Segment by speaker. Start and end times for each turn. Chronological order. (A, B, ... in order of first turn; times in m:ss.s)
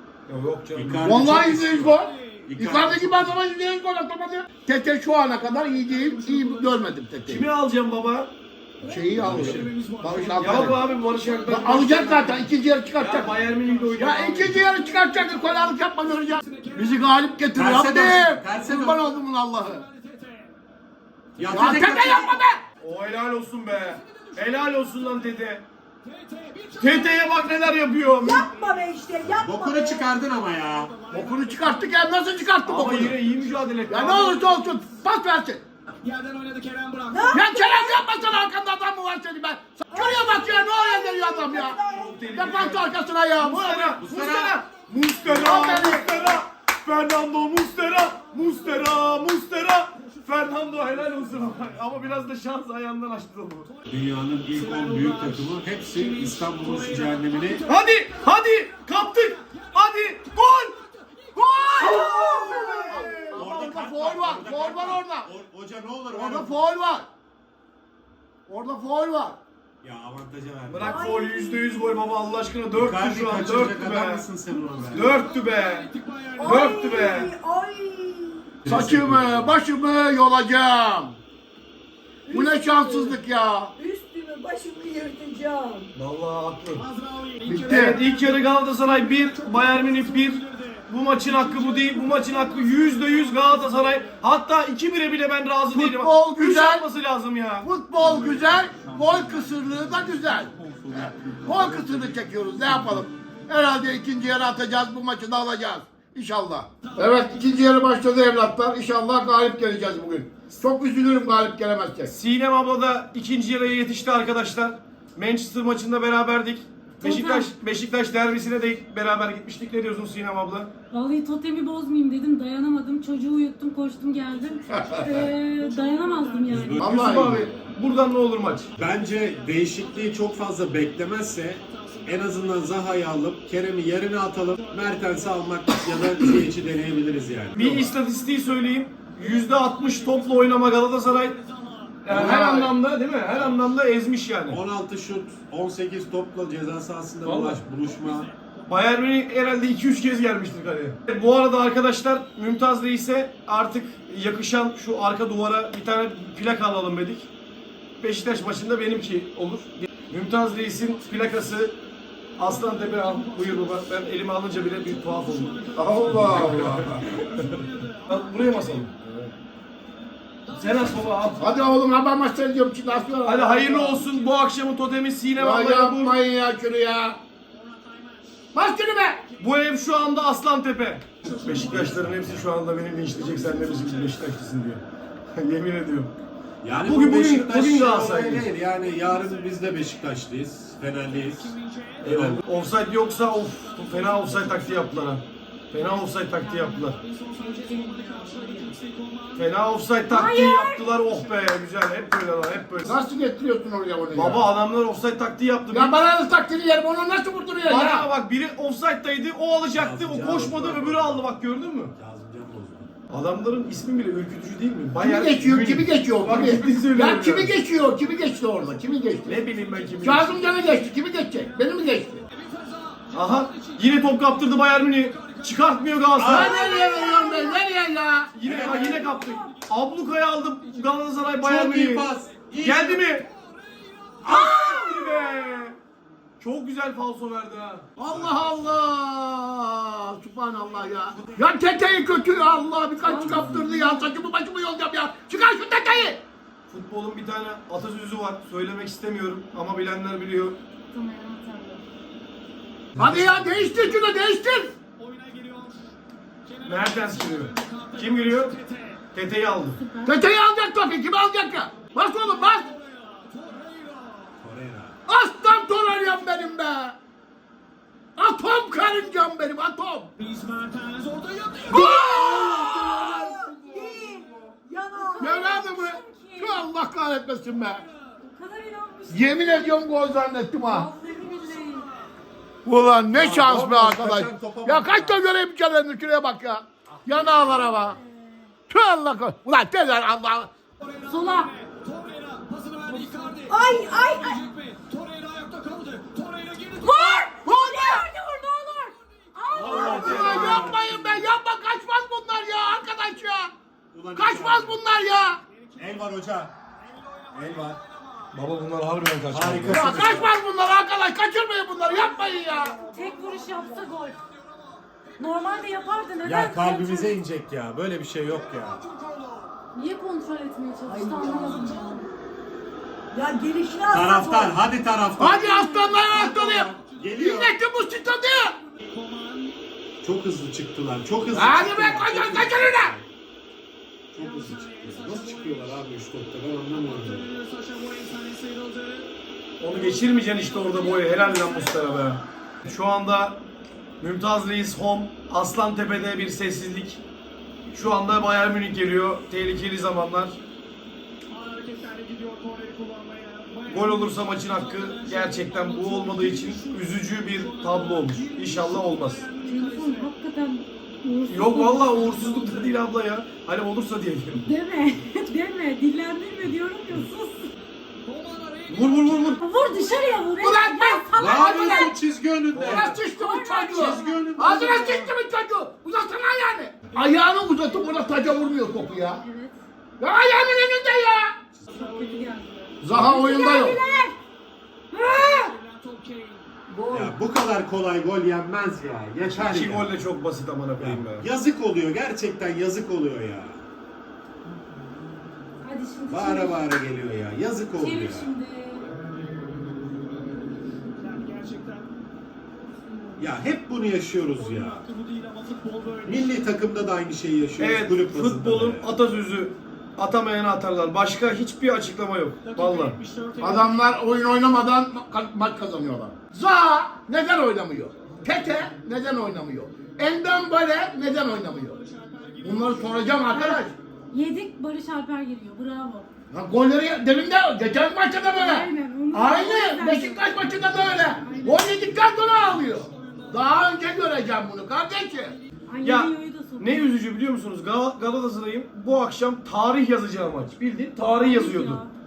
0:00.3-0:01.3 A
0:00.7-0:03.4 B
0:01.0-0:07.5 C
0:01.9-0:02.5 D
0:05.6-0:06.9 D
0:07.3-0:08.3 A
0:08.8-0:12.3 D
0:08.8-0:10.8 C
0:09.1-0:09.6 B
0:10.4-0:14.6 A
0:11.4-0:13.4 C
0:13.1-0:17.1 D
0:14.0-0:19.8 C
0:17.6-0:19.0 B
0:18.4-0:20.6 D
0:21.3-0:22.0 D
0:21.4-0:22.3 B
0:21.5-0:22.6 C
0:22.8-0:25.6 A
0:23.7-0:25.5 D
0:26.0-0:27.6 D
0:26.8-0:28.5 A
0:28.2-0:30.1 E
0:29.4-0:30.9 B
0:30.4-0:32.0 D
0:31.1-0:33.2 C
0:32.6-0:34.4 A
0:33.9-0:35.6 C
0:36.0-0:37.4 D
0:37.1-0:38.0 E
0:37.3-0:41.8 C
0:39.9-0:42.3 E
0:41.9-0:53.7 A
0:41.9-0:42.3 D
0:42.3-0:44.0 C
0:44.0-0:44.6 B
0:44.5-0:46.4 D
0:45.3-0:46.3 C
0:45.5-0:45.9 B
0:47.6-0:51.8 D
0:53.6-1:02.4 D
0:53.9-0:57.6 B
0:57.6-1:00.7 A
1:01.4-1:03.8 A
1:01.8-1:03.0 E
1:01.8-1:05.3 C
1:03.3-1:06.6 B
1:06.1-1:07.1 C
1:08.5-1:09.4 C
1:09.8-1:11.1 B
1:10.7-1:14.3 A
1:10.8-1:12.0 E
1:12.7-1:15.2 B
1:14.4-1:17.2 D
1:14.9-1:15.9 A
1:16.4-1:18.5 E
1:16.4-1:17.3 A
1:18.6-1:19.6 B
1:18.6-1:21.2 C
1:22.2-1:23.2 E
1:22.3-1:23.7 C
1:23.8-1:25.9 E
1:25.9-1:26.8 A
1:26.7-1:34.2 D
1:27.4-1:28.0 C
1:27.6-1:37.7 A
1:35.7-1:36.8 C
1:37.6-1:52.1 C
1:38.0-1:41.3 D
1:40.8-1:42.3 B
1:46.8-1:47.5 D
1:52.1-2:00.7 A
1:57.0-1:57.5 F
2:00.9-2:06.8 F
2:04.2-2:06.9 D
2:04.7-2:05.3 C
2:06.5-2:07.4 B
2:06.8-2:08.7 A
2:06.8-2:07.5 C
2:08.8-2:18.0 B
2:08.8-2:13.0 D
2:14.2-2:16.0 D
2:17.2-2:22.1 D
2:17.5-2:21.4 A
2:22.0-2:24.6 A
2:22.1-2:22.7 C
2:24.5-2:28.3 B
2:27.2-2:27.6 A
2:27.7-2:28.6 D
2:28.7-2:37.3 A
2:38.0-2:41.8 A
2:42.4-2:49.3 A
2:42.4-2:48.9 D
2:45.7-2:47.2 C
2:50.4-2:51.5 D
2:50.5-2:51.4 A
2:51.4-2:54.0 C
2:53.2-2:56.2 A
2:54.0-2:54.5 D
2:55.4-2:57.2 C
2:57.5-2:58.5 D
2:58.5-2:59.2 C
2:59.4-3:04.8 A
3:01.2-3:02.1 D
3:01.7-3:02.4 B
3:02.9-3:04.3 D
3:05.3-3:06.1 A
3:06.6-3:12.4 B
3:06.7-3:08.5 A
3:08.5-3:10.2 D
3:10.9-3:19.6 D
3:12.0-3:17.0 A
3:16.4-3:18.8 F
3:19.4-3:23.0 A
3:20.1-3:20.9 F
3:20.8-3:23.0 D
3:22.8-3:24.5 C
3:24.1-3:26.0 A
3:25.7-3:28.1 C
3:27.6-3:31.9 A
3:29.7-3:31.2 B
3:32.0-3:32.9 B
3:33.1-3:37.6 A
3:35.0-3:39.4 C
3:39.2-3:40.4 A
3:39.2-3:46.3 D
3:40.0-3:42.2 C
3:43.1-3:46.5 A
3:46.2-3:47.2 B
3:46.2-3:48.4 C
3:46.3-3:47.6 F
3:48.3-3:52.1 A
3:48.4-3:49.1 B
3:48.5-3:49.7 D
3:48.6-3:49.5 F
3:50.6-3:51.0 D
3:51.4-3:53.0 B
3:52.6-3:53.3 A
3:53.2-3:54.4 D
3:54.2-3:55.2 C
3:54.2-3:55.8 A
3:56.4-3:57.9 A
3:58.0-4:06.2 C
3:58.1-3:58.8 B
4:00.8-4:01.4 D
4:03.0-4:04.2 F
4:06.7-4:10.6 A
4:10.9-4:11.8 F
4:13.0-4:13.7 B
4:13.0-4:14.7 C
4:15.0-4:15.9 D
4:16.5-4:19.1 D
4:16.6-4:18.5 A
4:19.1-4:19.8 A
4:19.7-4:20.2 F
4:20.0-4:22.8 C
4:21.9-4:24.4 D
4:24.4-4:25.0 B
4:25.1-4:27.0 C
4:28.2-4:30.1 C
4:30.2-4:31.9 D
4:31.7-4:33.1 C
4:31.9-4:35.5 E
4:32.0-4:34.5 B
4:35.2-4:36.7 F
4:35.2-4:37.8 C
4:37.6-4:38.2 D
4:38.2-4:39.9 F
4:39.1-4:40.9 C
4:40.6-4:41.9 F
4:40.8-4:42.1 D
4:42.6-4:48.0 C
4:43.1-4:45.2 B
4:46.9-4:47.8 B
4:47.8-4:48.4 F
4:48.7-4:50.5 C
4:50.8-4:57.4 D
4:51.0-4:51.5 F
4:53.1-4:54.4 E
4:53.5-4:54.3 F
4:56.8-5:00.6 F
4:57.4-4:58.0 C
4:59.2-4:59.6 D
4:59.5-5:00.8 B
4:59.6-5:00.7 A
4:59.7-5:03.5 C
5:00.6-5:01.2 D
5:03.9-5:04.8 B
5:04.1-5:05.4 C
5:05.5-5:06.2 D
5:05.8-5:06.5 B
5:06.8-5:08.3 D
5:07.3-5:07.8 B
5:08.3-5:10.3 A
5:09.3-5:10.3 B
5:09.7-5:12.8 C
5:11.9-5:16.3 D
5:12.9-5:14.2 F
5:15.2-5:17.2 F
5:16.2-5:18.8 B
5:18.3-5:19.6 D
5:19.7-5:22.1 F
5:20.9-5:21.9 E
5:21.6-5:22.0 D
5:23.1-5:24.6 E
5:23.9-5:27.5 B
5:25.2-5:28.5 C
5:25.9-5:27.2 D
5:28.6-5:29.6 D
5:30.0-5:33.1 B
5:31.3-5:32.9 C
5:34.1-5:37.3 B
5:34.2-5:35.9 D
5:36.6-5:42.2 D
5:39.6-5:43.4 A
5:44.0-5:47.0 A
5:47.7-5:50.4 A
5:51.3-6:00.1 D
5:53.7-5:59.2 A
5:59.4-6:02.4 F
6:01.3-6:04.4 A
6:01.8-6:02.7 D
6:04.4-6:07.5 F
6:08.0-6:10.2 D
6:08.7-6:09.4 A
6:09.4-6:12.0 F
6:10.4-6:11.9 C
6:11.2-6:13.0 B
6:12.5-6:12.9 A
6:12.6-6:19.2 C
6:13.0-6:15.1 F
6:13.7-6:15.1 B
6:16.9-6:19.0 D
6:18.9-6:19.6 F
6:20.0-6:21.4 C
6:21.7-6:22.4 D
6:21.7-6:24.2 F
6:22.8-6:23.8 C
6:24.9-6:25.5 F
6:24.9-6:26.5 D
6:26.7-6:27.2 E
6:26.9-6:29.9 B
6:29.3-6:31.2 A
6:30.8-6:33.6 B
6:35.6-6:36.6 F
6:36.1-6:38.3 B
6:37.8-6:38.9 F
6:41.0-6:41.9 D
6:43.2-6:44.8 B
6:44.1-6:46.5 D
6:46.0-6:48.9 B
6:47.6-6:53.0 A
6:52.4-6:53.8 D
6:53.4-7:01.8 C
7:01.1-7:03.3 D
7:02.4-7:03.7 C
7:03.3-7:06.1 F
7:06.3-7:15.3 C
7:08.3-7:11.9 F
7:11.9-7:13.9 D
7:15.7-7:16.9 F
7:15.8-7:21.8 A
7:21.2-7:21.9 F